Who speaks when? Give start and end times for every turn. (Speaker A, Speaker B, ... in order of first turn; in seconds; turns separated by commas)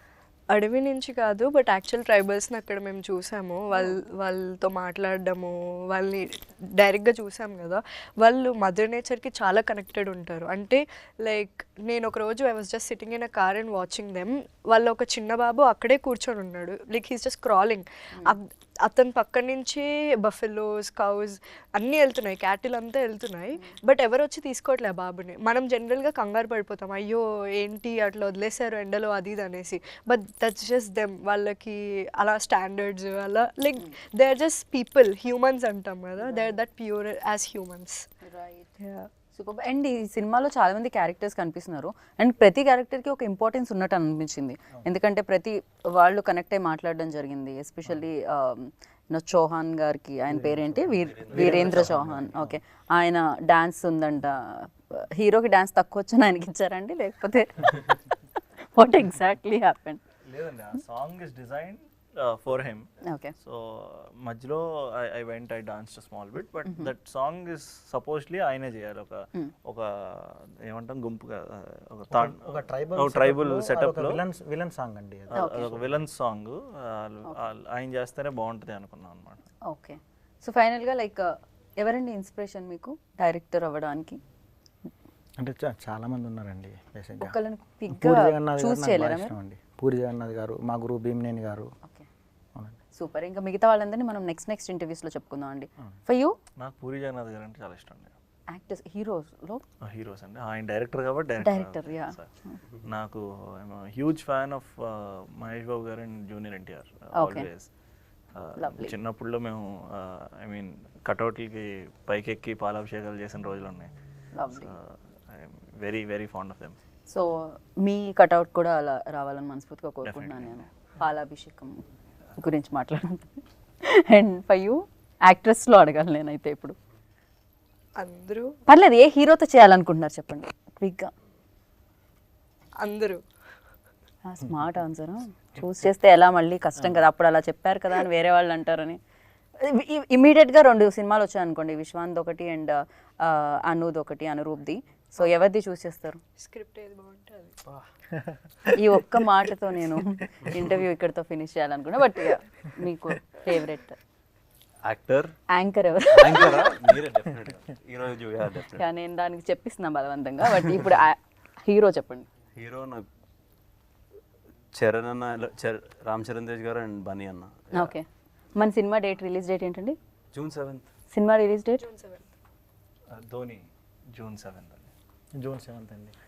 Speaker A: 0.5-38.0, Speaker B: 3.8-4.0, Speaker B: 36.2-36.6, Speaker B: 38.2-58.2, Speaker C: 51.0-51.9, Speaker D: 51.3-52.5, Speaker E: 51.3-52.3, Speaker B: 58.7-60.0, Speaker E: 60.2-62.9, Speaker B: 63.0-63.3, Speaker E: 63.4-74.2, Speaker B: 66.7-66.9, Speaker D: 72.1-75.6, Speaker E: 75.3-79.4, Speaker B: 75.4-75.7, Speaker B: 79.7-84.2, Speaker D: 85.4-87.3, Speaker B: 87.2-89.3, Speaker D: 87.9-91.7, Speaker B: 92.9-96.4, Speaker E: 96.6-98.1, Speaker B: 98.5-99.6, Speaker E: 99.8-102.3, Speaker B: 101.4-102.6, Speaker E: 102.8-107.7, Speaker B: 107.2-107.5, Speaker E: 108.3-113.9, Speaker B: 108.6-109.0, Speaker B: 114.3-114.8, Speaker E: 114.5-116.8, Speaker B: 117.1-126.8, Speaker E: 120.0-120.6, Speaker A: 128.0-128.5, Speaker B: 128.7-131.1, Speaker A: 132.8-133.2, Speaker B: 134.3-139.0, Speaker B: 139.6-146.2, Speaker A: 146.4-147.6, Speaker B: 148.7-154.0, Speaker C: 154.8-155.3, Speaker B: 155.5-156.9, Speaker C: 156.1-158.8, Speaker B: 158.8-162.3, Speaker C: 162.6-163.1, Speaker C: 164.8-167.9, Speaker B: 167.7-170.0, Speaker C: 170.3-170.9, Speaker B: 171.1-171.9, Speaker A: 171.8-172.3, Speaker E: 173.1-174.9, Speaker D: 175.4-176.1